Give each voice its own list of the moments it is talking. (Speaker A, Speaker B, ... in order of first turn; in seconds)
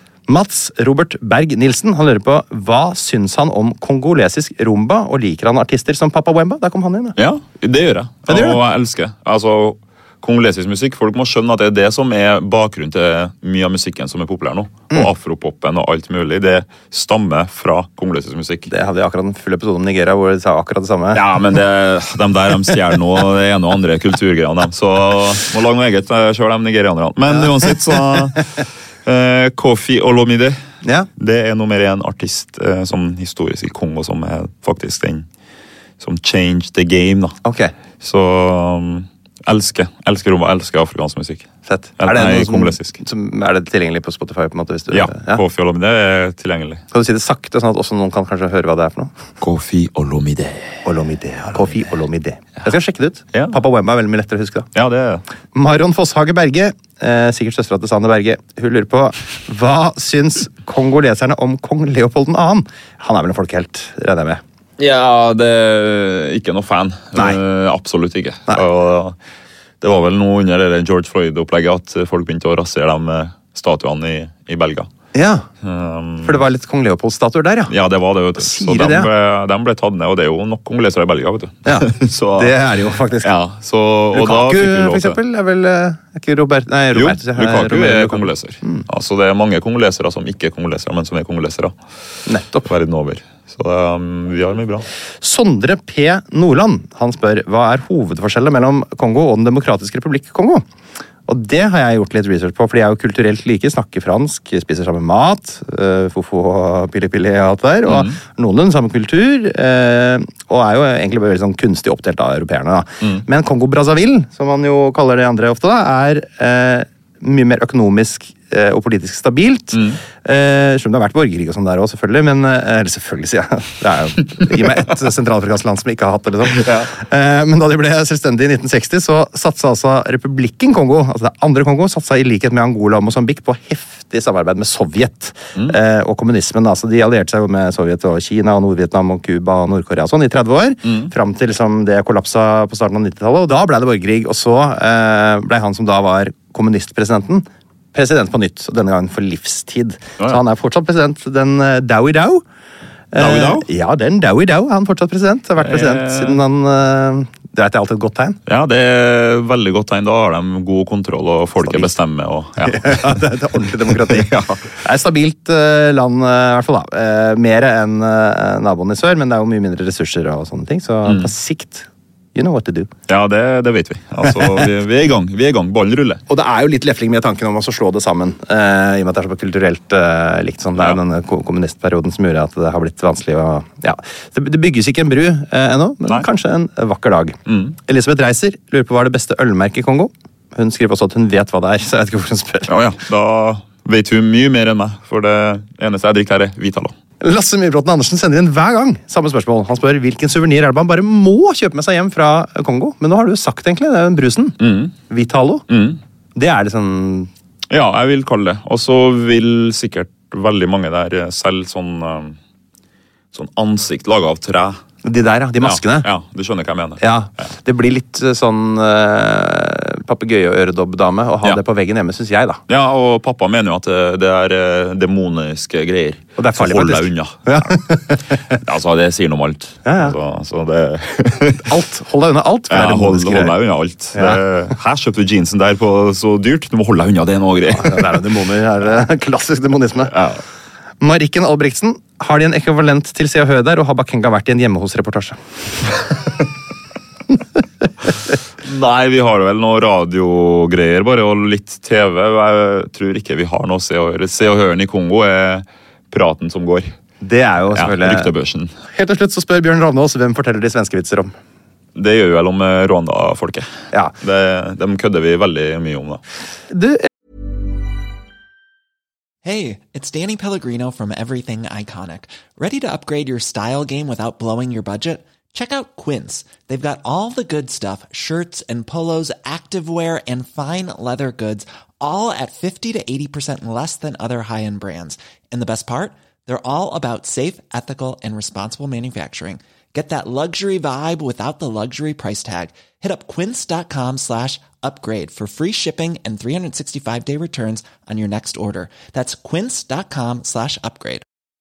Speaker A: 0.3-7.2, 8.3-8.6, 18.7-21.2, 30.8-31.1, 37.4-37.7, 41.6-45.4, 46.9-49.1, 50.8-54.7, 55.5-64.4, 75.1-75.5, 76.2-77.7, 78.4-79.1, 81.6-83.3, 84.1-88.8, 92.2-92.7, 95.2-100.6, 101.2-152.4, 153.1-158.4, 161.6-161.9, 162.6-172.9, 174.2-174.6, 176.3-192.7, 197.2-205.6, 206.3-207.3, 215.0-216.1, 217.0-222.6, 226.4-228.3, 229.8-230.2, 231.7-233.6, 234.1-234.4, 237.7-240.1, 241.0-245.4, 257.2-258.3, 258.9-261.3, 266.7-267.1
Speaker B: 7.2-18.7, 21.1-30.6, 31.2-35.2, 36.0-37.4, 38.0-41.5, 42.0-43.0, 44.9-46.8, 49.4-50.8, 53.3-53.6, 54.7-55.2, 64.8-69.1, 69.8-74.9, 75.6-76.4, 77.7-82.5, 83.2-85.2, 86.9-91.7, 92.7-94.8, 107.9-108.1, 119.7-120.0, 124.5-124.8, 126.5-126.9, 140.8-141.1, 153.2-153.7, 155.6-156.4, 158.4-164.7, 171.0-171.3, 173.1-176.2, 187.5-187.8, 192.7-196.9, 204.6-204.9, 205.7-206.0, 207.7-212.4, 213.3-214.8, 215.6-217.5, 222.7-227.8, 228.5-231.7, 232.7-238.2, 240.1-240.4, 248.6-256.9, 257.7-258.7, 261.9-263.7, 264.2-266.2
Speaker C: 269.4-301.2